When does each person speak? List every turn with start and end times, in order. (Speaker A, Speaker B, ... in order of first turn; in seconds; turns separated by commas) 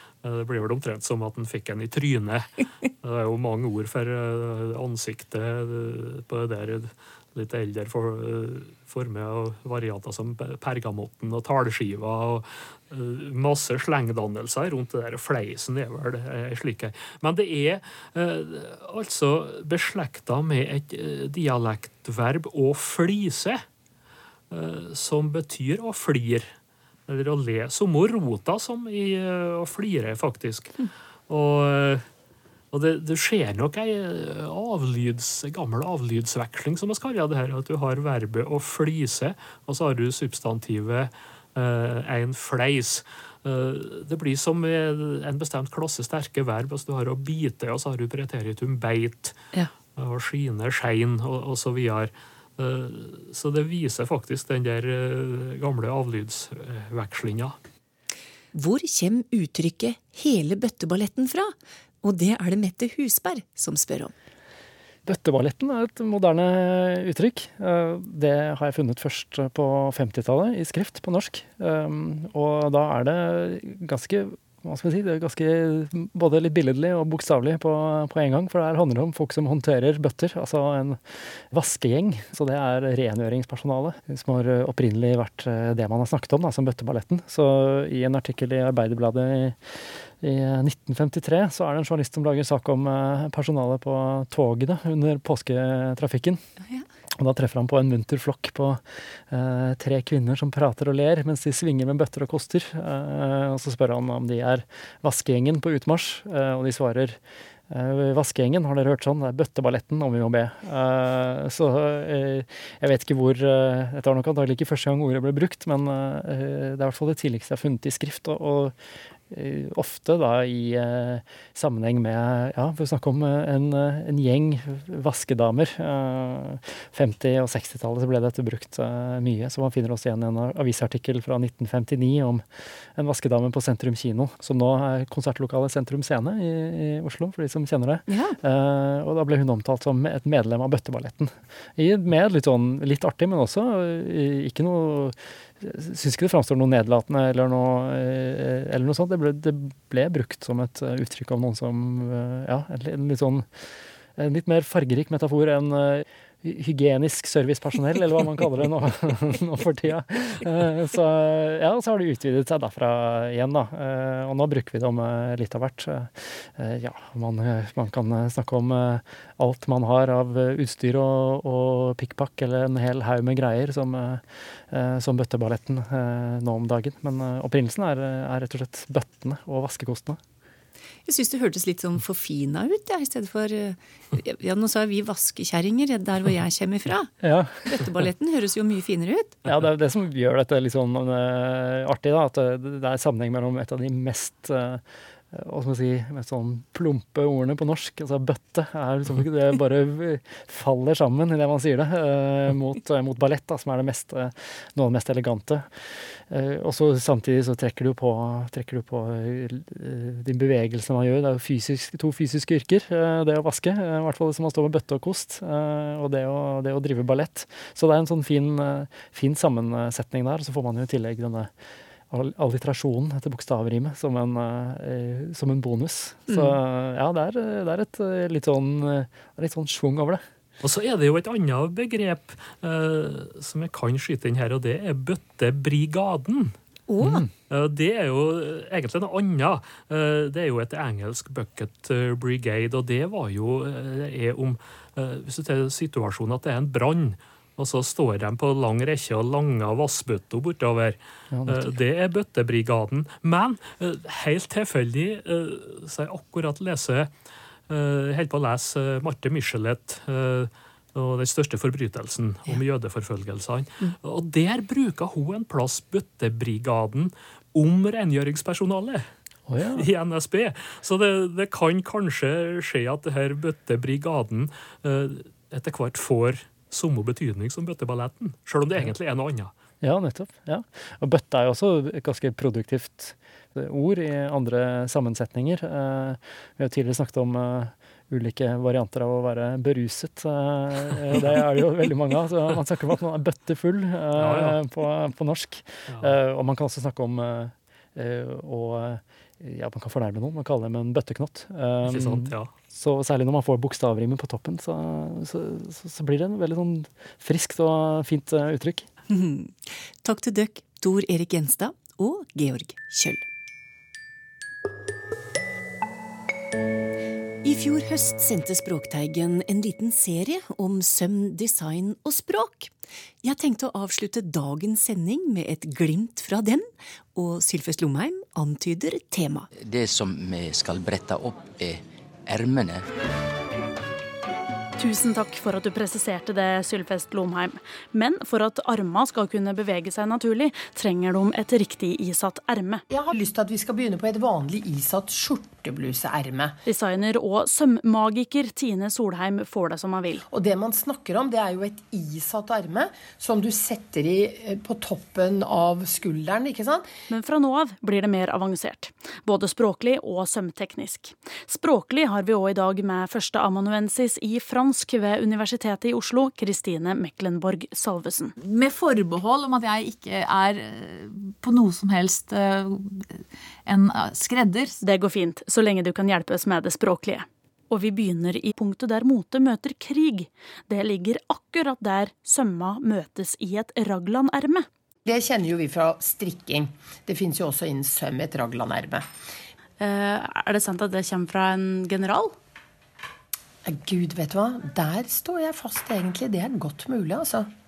Speaker A: 0.2-23.6, Speaker A: 24.5-26.5, Speaker A: 27.1-32.0, Speaker A: 32.7-49.3, Speaker A: 50.0-57.5, Speaker B: 58.5-64.1, Speaker C: 65.0-96.4, Speaker C: 97.2-107.2, Speaker C: 107.7-118.8, Speaker C: 119.3-132.4, Speaker C: 132.9-153.5, Speaker B: 138.1-138.4, Speaker C: 154.2-180.2, Speaker B: 181.1-187.1, Speaker C: 187.2-187.7, Speaker B: 187.7-189.4, Speaker C: 189.4-205.7, Speaker C: 206.3-221.5, Speaker C: 222.1-230.2, Speaker B: 226.3-226.6, Speaker A: 230.6-257.1, Speaker B: 236.9-237.2, Speaker C: 251.3-251.8, Speaker A: 257.7-269.1, Speaker C: 269.5-269.9, Speaker A: 269.8-279.5, Speaker C: 279.8-308.9, Speaker A: 294.2-294.6, Speaker A: 301.9-302.5, Speaker B: 309.1-313.2, Speaker B: 317.4-322.7, Speaker B: 323.2-329.5, Speaker D: 329.5-332.8, Speaker E: 334.8-342.8, Speaker F: 342.9-346.6, Speaker E: 346.7-350.2, Speaker F: 350.2-356.9, Speaker E: 357.1-368.3, Speaker G: 368.4-374.8, Speaker E: 374.8-384.6, Speaker F: 385.0-389.1, Speaker E: 389.8-392.4, Speaker F: 393.6-397.5